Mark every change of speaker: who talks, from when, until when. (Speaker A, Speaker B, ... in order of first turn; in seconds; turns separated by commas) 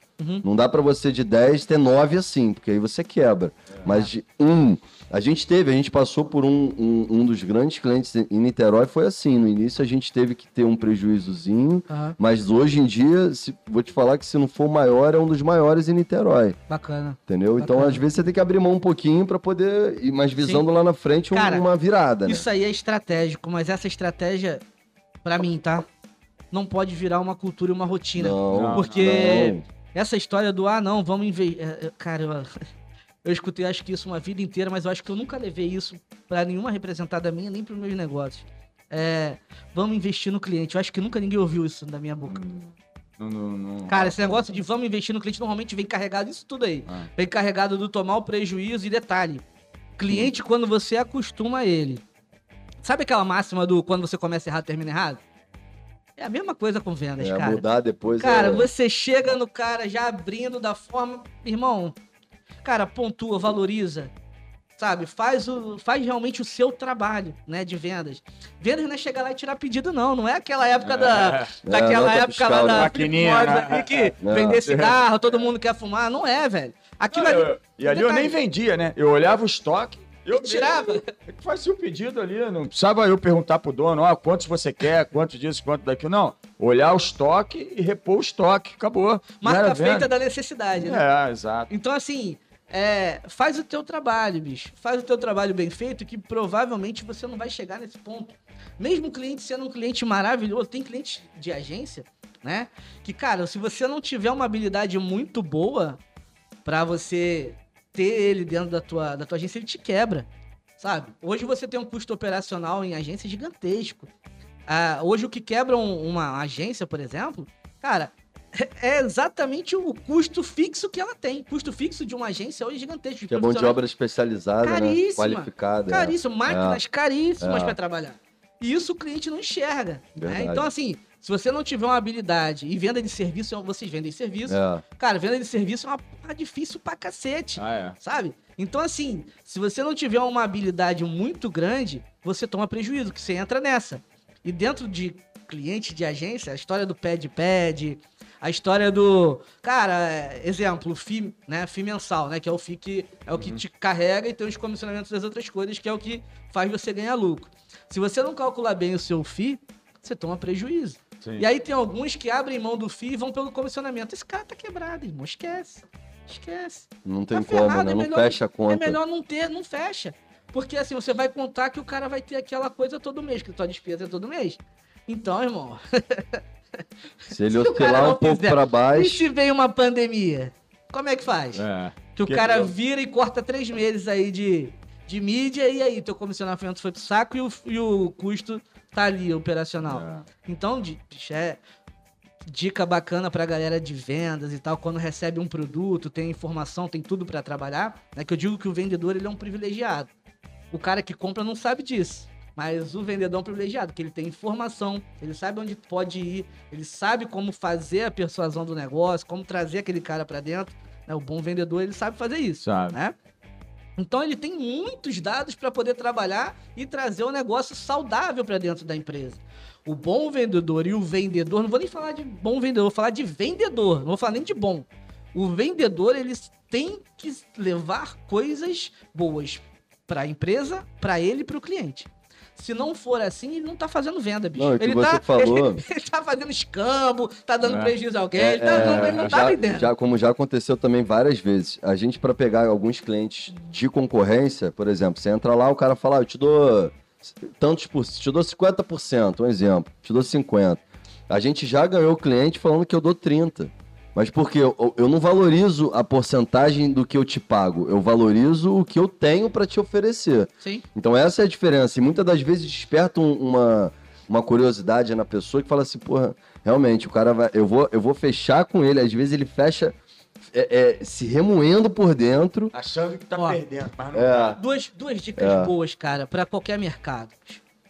Speaker A: 0.4-16.6, Speaker B: 11.9-12.2, Speaker B: 16.7-18.0, Speaker A: 17.3-22.4, Speaker B: 21.3-21.7, Speaker B: 22.3-24.6, Speaker B: 25.2-25.9, Speaker B: 26.5-32.6, Speaker A: 28.2-29.6, Speaker C: 28.5-29.5, Speaker B: 33.2-42.4, Speaker C: 42.2-44.3, Speaker B: 43.9-49.4, Speaker B: 50.0-52.0, Speaker B: 52.8-55.2, Speaker B: 56.2-57.6, Speaker A: 57.2-58.7, Speaker B: 58.2-62.0, Speaker B: 62.6-64.1, Speaker B: 64.8-78.3, Speaker C: 70.8-71.5, Speaker A: 71.7-72.9, Speaker C: 72.7-74.1, Speaker A: 74.2-74.6, Speaker C: 74.7-75.1, Speaker C: 77.1-90.1, Speaker B: 80.3-81.1, Speaker B: 89.4-91.0, Speaker C: 90.8-91.7, Speaker B: 91.7-106.0, Speaker B: 106.7-110.3, Speaker B: 110.8-114.1, Speaker B: 114.7-123.8, Speaker A: 123.3-126.8, Speaker B: 124.6-176.4, Speaker A: 127.4-127.8, Speaker A: 130.2-130.7, Speaker A: 134.5-134.8, Speaker C: 137.6-138.0, Speaker C: 153.4-153.6, Speaker A: 167.1-169.0, Speaker A: 177.3-179.2, Speaker B: 177.3-181.6, Speaker C: 181.6-182.7, Speaker B: 182.2-191.6, Speaker C: 189.8-190.3, Speaker B: 192.5-200.1, Speaker B: 200.7-213.2, Speaker C: 212.6-213.0, Speaker B: 214.0-239.9, Speaker A: 234.6-235.8, Speaker C: 237.6-237.9, Speaker A: 238.3-269.9, Speaker C: 238.7-239.4, Speaker A: 270.5-272.7, Speaker C: 272.7-274.6, Speaker B: 273.4-273.6, Speaker A: 274.1-274.6, Speaker B: 274.6-277.6, Speaker A: 275.4-275.7